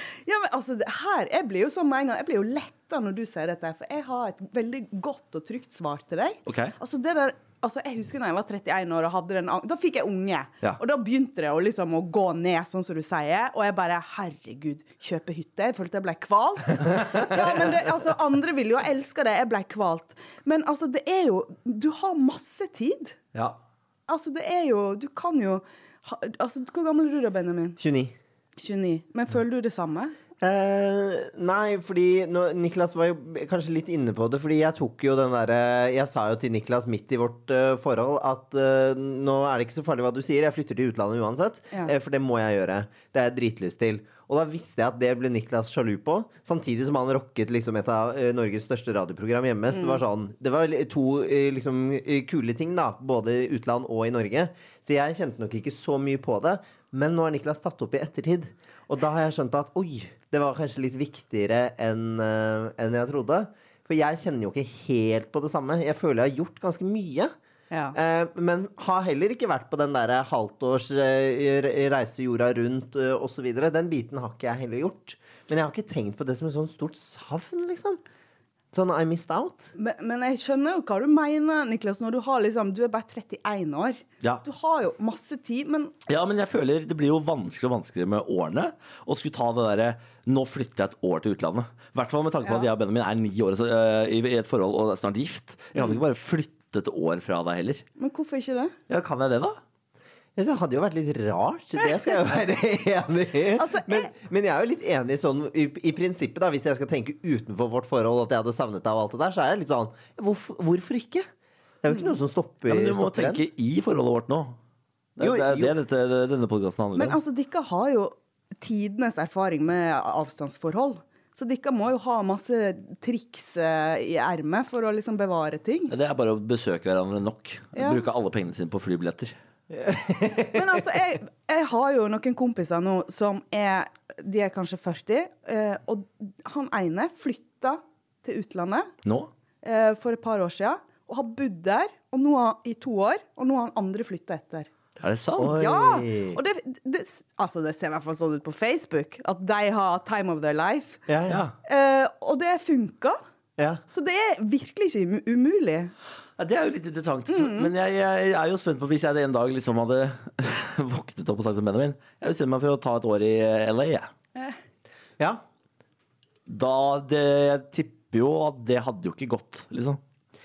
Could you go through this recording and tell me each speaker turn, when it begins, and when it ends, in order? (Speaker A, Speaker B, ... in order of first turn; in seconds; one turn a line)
Speaker A: 0.2-23.2
Speaker B: 6.5-6.7
Speaker A: 24.1-27.8
Speaker C: 27.8-28.1
Speaker A: 28.6-30.1
Speaker C: 30.4-67.3
Speaker A: 67.7-68.0
Speaker C: 67.9-78.0
Speaker C: 78.7-79.7
Speaker A: 79.8-85.9
Speaker B: 86.1-97.8
Speaker A: 92.4-92.7
Speaker A: 98.0-98.7
Speaker B: 98.9-99.6
Speaker C: 100.3-111.2
Speaker A: 103.5-104.1
Speaker C: 111.8-113.4
Speaker B: 112.7-114.6
Speaker B: 115.2-117.2
Speaker C: 115.2-115.7
Speaker A: 117.0-125.9
Speaker B: 125.9-129.3
Speaker A: 127.7-128.0
Speaker C: 129.7-130.7
Speaker A: 130.5-138.9
Speaker B: 139.0-139.3
Speaker A: 139.6-144.7
Speaker B: 145.0-145.6
Speaker C: 145.4-146.4
Speaker A: 145.4-151.0
Speaker C: 151.1-151.4
Speaker B: 151.3-151.5
Speaker A: 151.6-153.2
Speaker C: 153.6-153.8
Speaker A: 153.9-155.9
Speaker B: 156.4-164.1
Speaker A: 157.3-157.7
Speaker B: 166.5-170.0